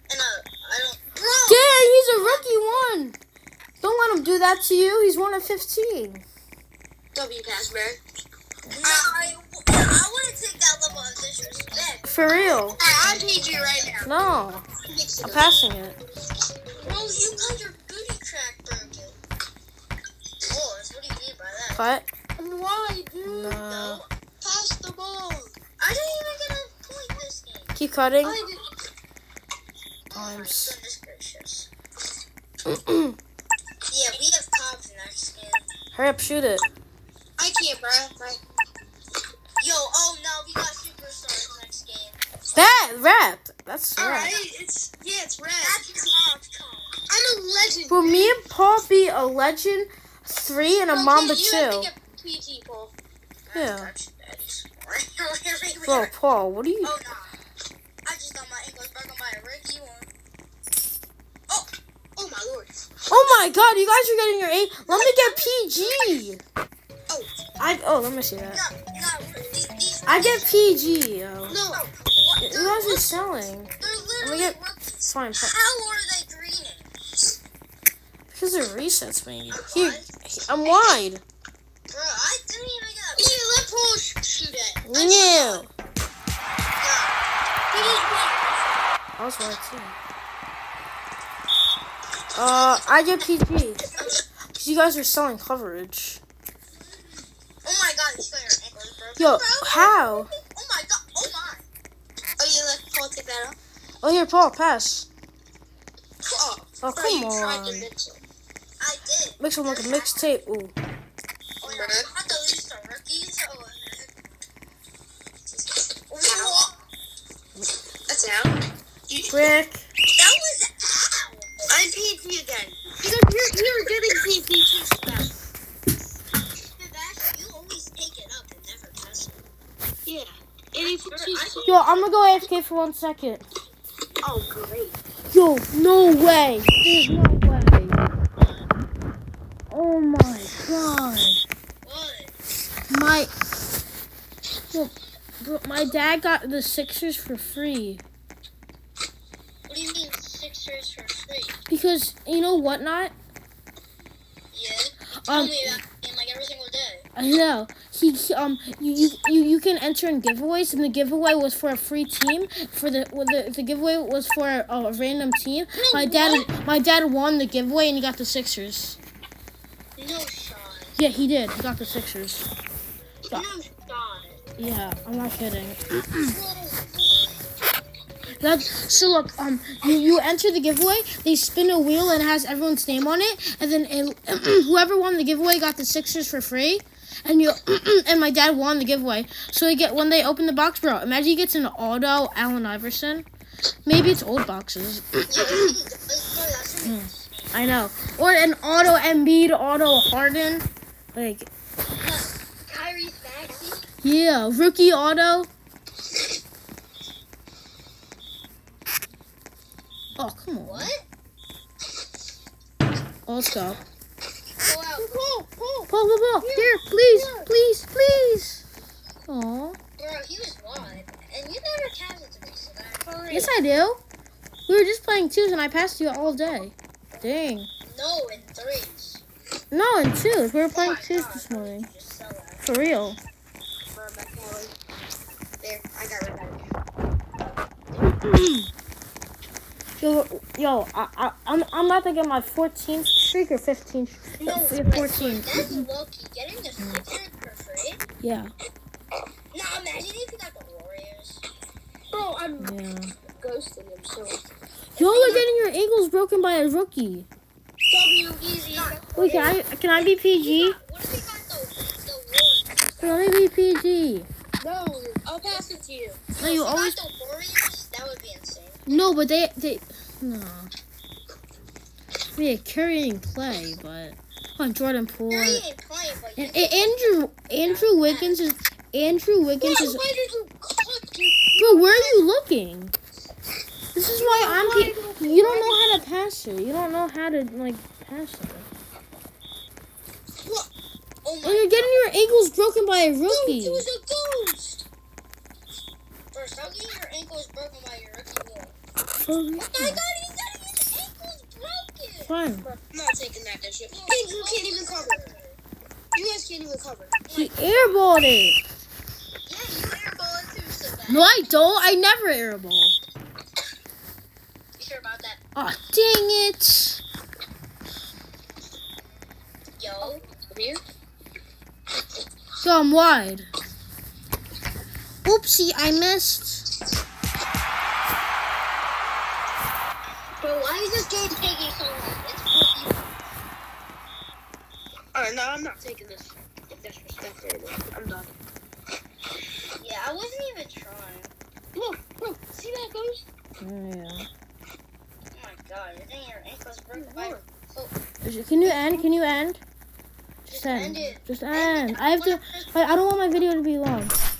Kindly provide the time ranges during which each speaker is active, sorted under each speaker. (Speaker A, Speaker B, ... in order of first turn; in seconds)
Speaker A: 0.1-2.5, 8.7-12.7, 16.8-19.2, 20.5-21.9, 25.8-27.8, 30.1-31.7, 33.9-35.7, 39.6-42.2, 44.0-44.5, 45.6-47.0, 53.5-56.1, 56.8-57.3, 58.0-60.1, 63.1-63.5, 64.9-66.3, 68.5-70.6, 71.7-73.2, 73.8-76.9, 79.5-80.1, 80.7-81.0, 81.9-83.4, 84.9-85.7, 86.5-87.2, 97.6-101.7, 108.8-110.3, 111.6-114.2, 116.1-116.7, 120.1-121.7, 126.8-129.4, 131.1-132.1, 138.4-138.7, 141.8-142.4, 149.7-151.6, 154.5-157.1, 170.0-171.0, 173.3-174.4, 176.3-177.5, 195.3-197.6, 202.0-203.8, 210.7-211.1, 214.6-215.1, 220.0-223.5, 227.1-229.2, 230.7-232.7, 244.4-248.0, 249.5-251.4, 255.0-255.5, 258.7-259.2, 260.3-263.1, 266.3-268.9, 275.3-278.4, 291.2-292.2, 293.6-294.5, 296.3-298.8, 299.6-302.4, 303.9-305.6, 307.3-308.1, 309.4-311.4, 314.8-315.4, 319.8-320.2, 330.4-333.2, 339.7-341.3, 345.3-347.9, 348.6-349.0, 350.5-352.8
Speaker B: 1.5-3.2, 3.8-6.2, 12.1-12.8, 14.0-14.7, 15.2-16.0, 21.7-22.1, 23.2-24.0, 27.8-28.4, 30.1-30.8, 32.7-33.2, 35.9-36.7, 42.5-44.3, 47.9-51.9, 53.5-53.9, 55.9-56.9, 63.1-66.4, 67.6-68.6, 70.1-71.6, 72.4-75.5, 78.3-81.2, 84.9-85.7, 89.2-90.0, 92.3-93.8, 94.4-96.2, 99.2-100.3, 104.0-105.1, 106.8-107.9, 109.4-110.7, 119.3-119.9, 131.7-133.4, 135.3-138.0, 139.7-141.4, 142.9-143.3, 144.7-148.0, 151.7-153.1, 155.3-155.8, 157.2-169.0, 171.0-172.5, 174.6-176.4, 178.4-193.3, 193.9-195.7, 196.8-201.5, 204.0-205.5, 210.2-210.9, 213.3-213.8, 215.9-218.6, 219.3-219.8, 223.3-224.0, 224.7-227.7, 229.7-231.9, 232.6-233.2, 238.0-238.7, 240.0-245.9, 246.8-247.0, 248.2-248.5, 252.6-253.1, 255.0-257.3, 259.2-260.8, 263.0-264.3, 266.4-267.0, 268.9-270.7, 272.4-275.6, 276.4-280.0, 281.6-282.9, 283.9-288.7, 291.4-293.9, 299.2-300.0, 302.3-302.7, 307.3-308.6, 311.1-312.9, 315.6-317.0, 322.6-323.5, 325.2-326.7, 343.6-344.3, 348.2-349.6, 350.5-354.1
Speaker C: 7.1-8.0, 12.8-14.1, 14.8-15.6, 22.4-25.5, 28.2-28.7, 37.4-38.4, 44.0-45.8, 47.1-48.4, 50.9-52.9, 61.5-62.8, 71.5-71.9, 83.2-84.8, 87.7-88.8, 102.4-103.6, 106.2-108.2, 111.6-112.1, 115.5-116.7, 118.1-119.5, 121.7-125.3, 130.1-131.7, 134.2-135.0, 165.8-166.5, 214.9-217.5, 223.1-223.5, 233.9-234.7, 235.6-236.7, 252.1-252.8, 253.3-254.4, 257.9-259.6, 264.6-266.2, 279.6-282.2, 284.1-286.1, 293.3-294.8, 302.6-305.3, 306.1-307.2, 320.0-320.8, 335.1-338.3, 341.7-343.2, 346.9-347.4